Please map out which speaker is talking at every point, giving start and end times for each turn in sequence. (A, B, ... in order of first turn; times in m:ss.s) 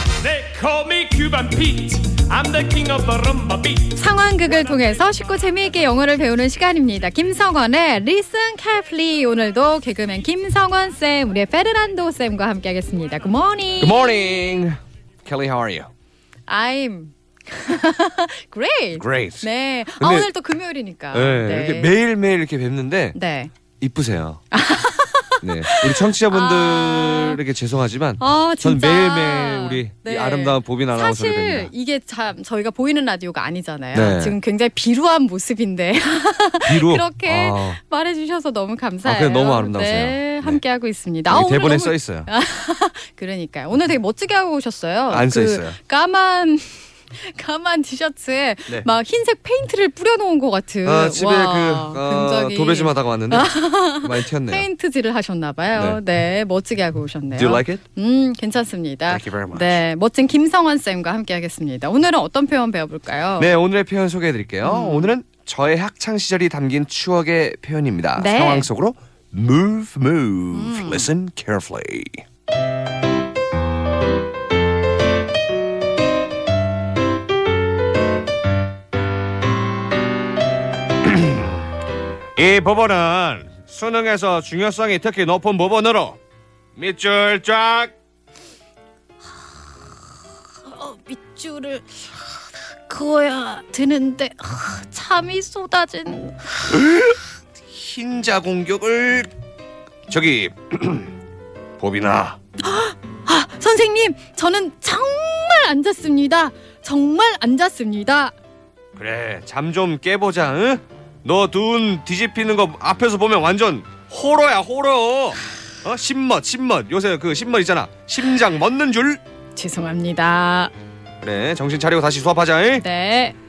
0:00.2-0:03.9 A
0:03.9-0:14.2 B
0:13.8-0:15.9 C
0:16.5-0:21.9 B
0:19.0-0:19.5 C
0:20.0-0:20.3 C
0:21.1-0:23.2 C
0:23.1-0:23.5 B
0:23.8-0:24.4 C
0:24.5-0:27.4 B
0:25.4-0:31.7 C
0:28.2-1:03.5 B
0:33.9-0:34.4 C
0:36.6-0:37.8 C
0:39.0-0:40.6 C
0:41.3-0:42.3 C
0:45.1-0:45.8 C
0:50.8-0:54.7 C
0:55.7-0:56.0 C
0:57.4-0:57.8 C
0:59.1-0:59.8 C
1:03.4-1:12.2 C
1:04.6-1:05.1 B
1:08.2-1:08.7 B
1:10.5-1:11.1 B
1:21.0-1:21.6 C
1:22.4-1:26.2 C
1:26.7-1:27.9 C
1:30.6-1:32.2 B
1:32.9-1:36.8 B
1:36.7-1:37.2 C
1:37.7-1:39.3 C
1:40.1-1:41.1 C
1:41.8-1:42.4 C
1:42.6-1:48.3 B
1:49.0-1:59.2 C
1:59.5-2:00.7 B
2:01.2-2:02.8 C
2:02.8-2:03.4 B